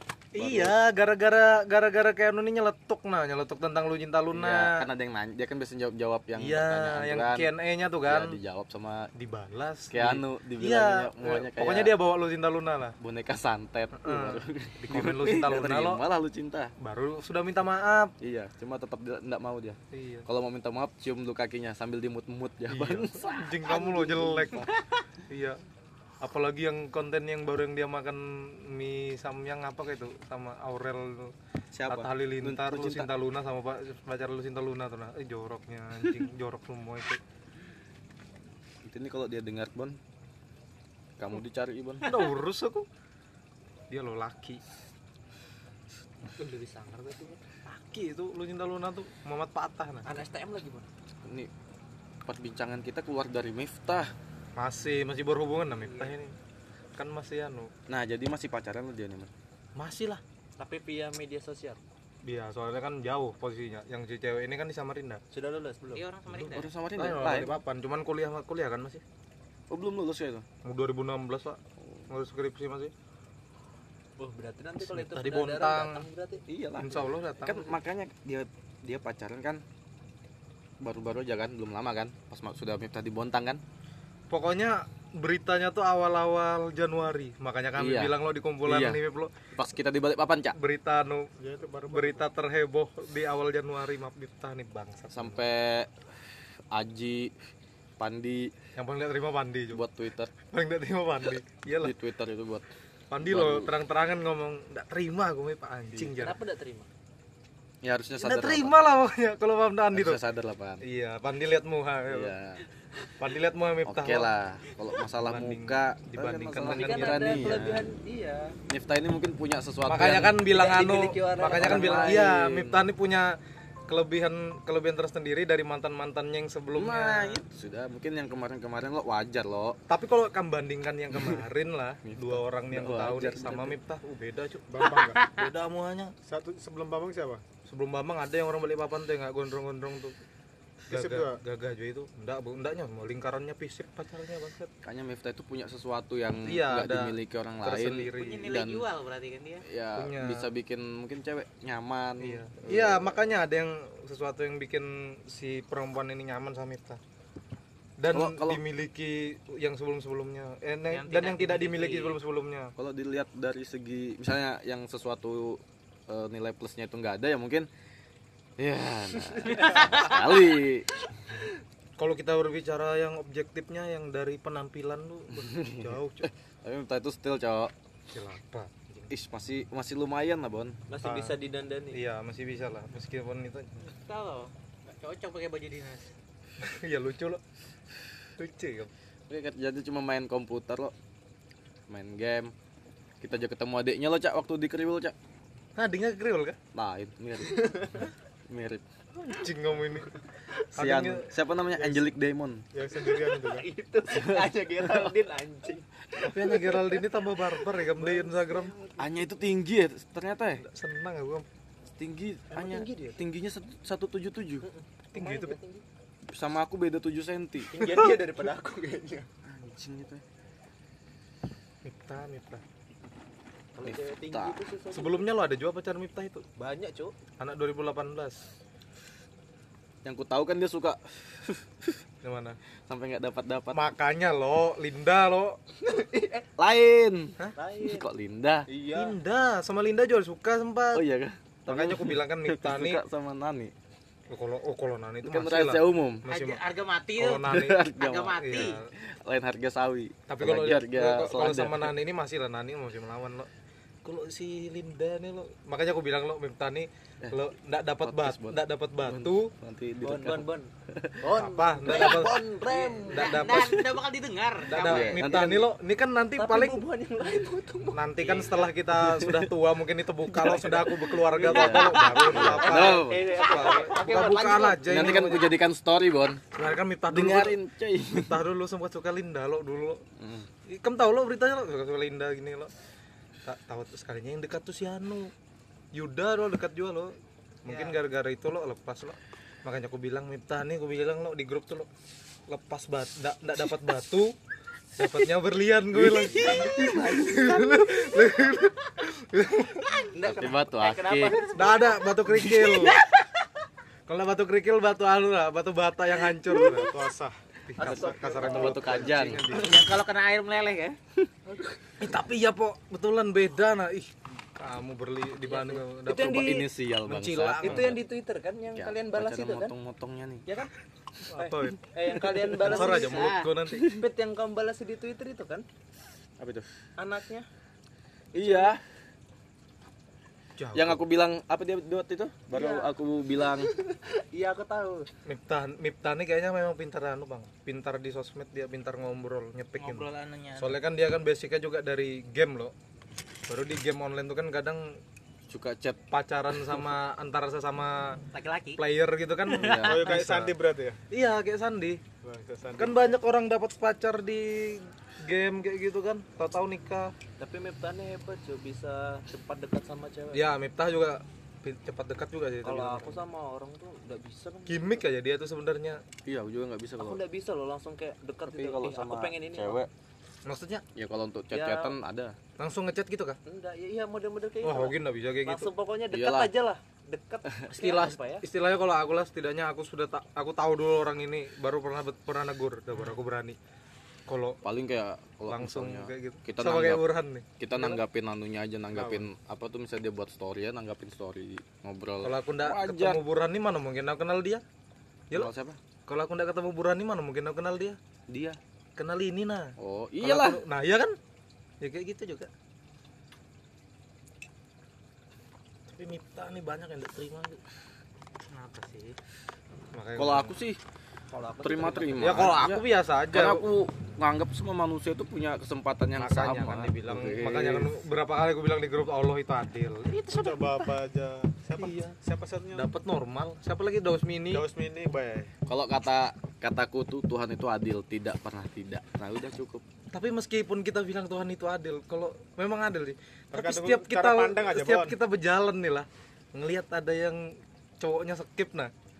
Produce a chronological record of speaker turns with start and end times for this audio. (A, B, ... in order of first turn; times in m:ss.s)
0:00.3-0:04.9 A
0:00.4-0:00.8 B
0:04.3-0:07.5 B
0:06.4-0:08.4 A
0:08.0-0:09.1 B
0:09.1-0:13.0 A
0:09.9-0:12.0 B
0:13.0-0:16.7 B
0:13.9-0:16.0 A
0:16.8-0:18.1 A
0:18.2-0:23.8 B
0:19.9-0:20.2 A
0:22.7-0:24.7 A
0:23.6-0:24.7 C
0:25.3-0:25.6 A
0:26.2-0:31.3 A
0:31.7-0:33.1 B
0:31.9-0:37.2 A
0:38.8-0:40.0 B
0:41.2-0:42.1 B
0:42.0-0:42.8 A
0:43.9-0:44.6 A
0:46.3-0:47.4 C
0:47.6-0:50.1 A
0:50.0-0:50.8 C
0:51.2-0:51.5 B
0:52.2-0:54.1 B
0:54.6-0:56.4 A
0:55.8-0:56.1 C
0:57.0-0:57.7 A
0:57.9-0:59.3 B
0:59.8-1:00.2 A
1:00.6-1:01.8 C
1:02.2-1:05.2 A
1:05.3-1:06.0 C
1:05.9-1:06.7 D
1:06.3-1:09.0 A
1:06.3-1:07.6 B
1:09.7-1:10.4 B
1:10.6-1:12.9 A
1:14.2-1:16.4 C
1:14.8-1:16.1 A
1:16.5-1:19.6 B
1:16.8-1:17.8 A
1:20.8-1:23.6 B
1:24.3-1:29.3 A
1:27.8-1:29.0 B
1:29.5-1:30.6 B
1:30.5-1:31.3 A
1:31.4-1:32.2 E
1:31.9-1:35.4 A
1:35.1-1:35.9 B
1:36.7-1:37.3 B
1:38.0-1:38.5 B
1:38.8-1:39.8 A
1:39.7-1:40.3 B
1:40.5-1:41.9 A
1:41.8-1:42.7 B
1:43.1-1:46.4 A
1:43.2-1:43.7 B
1:46.0-1:46.9 C
1:47.8-1:48.8 B
1:48.2-1:50.2 A
1:49.9-1:50.8 B
1:50.8-1:52.3 A
1:52.1-1:52.6 B
1:53.2-1:54.3 A
1:53.8-1:57.9 B
1:55.2-1:57.7 A
1:56.6-1:58.6 C
1:58.7-2:00.5 B
1:59.8-2:03.4 A
2:00.4-2:02.2 C
2:01.5-2:02.9 B
2:03.9-2:07.4 A
2:06.7-2:09.8 B
2:09.9-2:16.1 A
2:11.1-2:11.4 B
2:12.0-2:13.8 B
2:14.7-2:15.2 E
2:15.0-2:15.3 D
2:16.2-2:17.4 E
2:17.6-2:20.2 A
2:20.9-2:21.4 E
2:20.9-2:24.7 A
2:24.8-2:28.8 B
2:26.4-2:28.5 A
2:28.2-2:29.6 D
2:29.6-2:33.2 B
2:30.0-2:30.5 A
2:32.2-2:37.0 A
2:38.0-2:42.7 A
2:38.1-2:38.6 B
2:40.9-2:42.2 D
2:42.8-2:47.7 B
2:48.6-2:50.9 B
2:49.6-2:50.1 D
2:52.0-2:56.3 A
2:55.3-2:57.7 B
2:58.1-2:59.1 A
2:59.1-3:00.8 B
3:00.9-3:02.0 C
3:01.0-3:01.4 A
3:01.9-3:03.7 A
3:03.8-3:06.1 D
3:06.6-3:07.4 A
3:08.4-3:08.9 A
3:09.3-3:10.9 B
3:11.9-3:12.5 B
3:13.2-3:15.1 B
3:15.8-3:16.6 A
3:16.7-3:17.8 B
3:17.5-3:18.1 C
3:18.5-3:18.8 B
3:19.2-3:20.2 A
3:20.7-3:22.0 A
3:20.8-3:22.6 B
3:22.7-3:23.7 E
3:23.1-3:29.2 C
3:24.1-3:24.5 B
3:26.2-3:28.7 A
3:29.0-3:30.6 B
3:30.6-3:31.5 A
3:31.9-3:34.7 B
3:32.5-3:33.2 C
3:34.6-3:35.8 C
3:35.1-3:35.6 A
3:36.3-3:38.1 B
3:37.7-3:39.3 C
3:37.8-3:38.1 A
3:39.4-3:40.2 B
3:41.8-3:42.6 A
3:43.7-3:45.3 C
3:43.8-3:44.6 B
3:44.9-3:46.4 A
3:46.6-3:47.1 C
3:47.4-3:48.5 A
3:50.0-3:52.0 B
3:52.2-3:52.6 A
3:52.9-3:53.8 B
3:53.7-3:55.6 A
3:55.8-3:56.4 C
3:56.6-3:58.6 B
3:57.6-3:58.0 C
3:58.7-3:59.2 C
3:58.9-4:01.0 A
4:00.9-4:03.7 B
4:01.7-4:03.0 A
4:04.3-4:06.6 A
4:05.2-4:06.2 B
4:06.3-4:08.8 D
4:07.2-4:07.9 A
4:07.4-4:12.0 B
4:08.4-4:08.9 A
4:10.3-4:13.5 A
4:14.0-4:19.5 A
4:18.0-4:21.2 B
4:20.0-4:20.7 C
4:21.2-4:23.5 C
4:21.3-4:22.5 A
4:22.0-4:23.8 B
4:23.0-4:25.1 D
4:23.1-4:23.8 A
4:24.7-4:26.8 A
4:24.7-4:25.6 B
4:26.4-4:28.0 C
4:27.9-4:35.5 A
4:28.2-4:28.6 D
4:29.0-4:29.5 B
4:30.4-4:30.8 B
4:30.4-4:35.2 C
4:31.4-4:33.3 B
4:33.4-4:33.9 D
4:34.8-4:36.4 B
4:36.5-4:37.6 A
4:37.1-4:38.4 B
4:38.1-4:40.0 A
4:40.2-4:40.5 B
4:40.7-4:42.7 A
4:43.4-4:45.3 A
4:45.9-4:47.1 A
4:47.6-4:51.9 A
4:47.7-4:48.0 C
4:52.5-4:54.3 A
4:55.0-5:00.0 A
4:55.9-4:57.6 B
4:56.4-4:57.8 C
5:00.1-5:02.9 C
5:00.2-5:01.6 B
5:01.5-5:03.0 A
5:04.1-5:06.9 A
5:06.7-5:09.4 E
5:07.6-5:09.8 A
5:07.8-5:08.8 C
5:07.8-5:09.6 B
5:09.5-5:11.0 D
5:11.4-5:12.0 C
5:12.0-5:16.5 A
5:15.4-5:16.7 C
5:16.1-5:18.0 B
5:17.0-5:18.0 A
5:17.6-5:19.7 C
5:18.7-5:20.4 B
5:20.4-5:20.7 C
5:21.3-5:21.8 A
5:21.3-5:25.6 C
5:22.6-5:23.4 D
5:22.6-5:23.9 A
5:26.4-5:26.7 B
5:27.0-5:27.4 C
5:28.3-5:28.8 B
5:28.3-5:28.8 C
5:30.6-5:31.0 A
5:30.7-5:33.7 B
5:32.5-5:32.9 C
5:33.5-5:35.1 C
5:35.2-5:42.7 A
5:39.8-5:40.7 D
5:43.5-5:45.0 A
5:45.5-5:46.0 B
5:46.1-5:48.2 A
5:48.3-5:48.8 D
5:48.8-5:50.5 A
5:49.5-5:50.3 B
5:49.5-5:50.0 D
5:49.6-5:51.0 E
5:51.1-5:52.0 A
5:52.2-5:53.1 E
5:52.8-5:57.1 A
5:57.4-6:00.4 C
6:00.3-6:03.2 A
6:02.6-6:05.0 C
6:04.7-6:06.0 A
6:06.2-6:07.2 B
6:07.0-6:09.8 C
6:08.5-6:09.9 B
6:10.4-6:10.8 A
6:10.9-6:12.3 B
6:11.5-6:12.0 C
6:12.6-6:13.4 A
6:13.4-6:18.4 C
6:14.6-6:15.7 A
6:16.1-6:16.5 B
6:17.7-6:23.6 A
6:24.3-6:24.6 A
6:24.6-6:27.0 B
6:25.5-6:28.0 A
6:27.6-6:33.2 B
6:28.9-6:29.2 E
6:32.2-6:34.6 A
6:35.3-6:35.8 B
6:36.1-6:38.0 A
6:38.3-6:38.6 B
6:39.0-6:41.2 A
6:39.8-6:40.6 B
6:41.8-6:42.5 A
6:45.9-6:47.6 A
6:48.5-6:49.2 D
6:49.9-6:50.6 A
6:50.2-6:50.8 B
6:51.3-6:52.4 C
6:51.6-6:57.9 B
6:52.2-6:53.6 A
6:56.2-7:00.2 A
7:00.2-7:02.9 E
7:01.8-7:02.2 A
7:02.7-7:04.6 A
7:04.5-7:05.5 E
7:05.7-7:09.8 B
7:10.1-7:18.9 A
7:13.5-7:15.1 E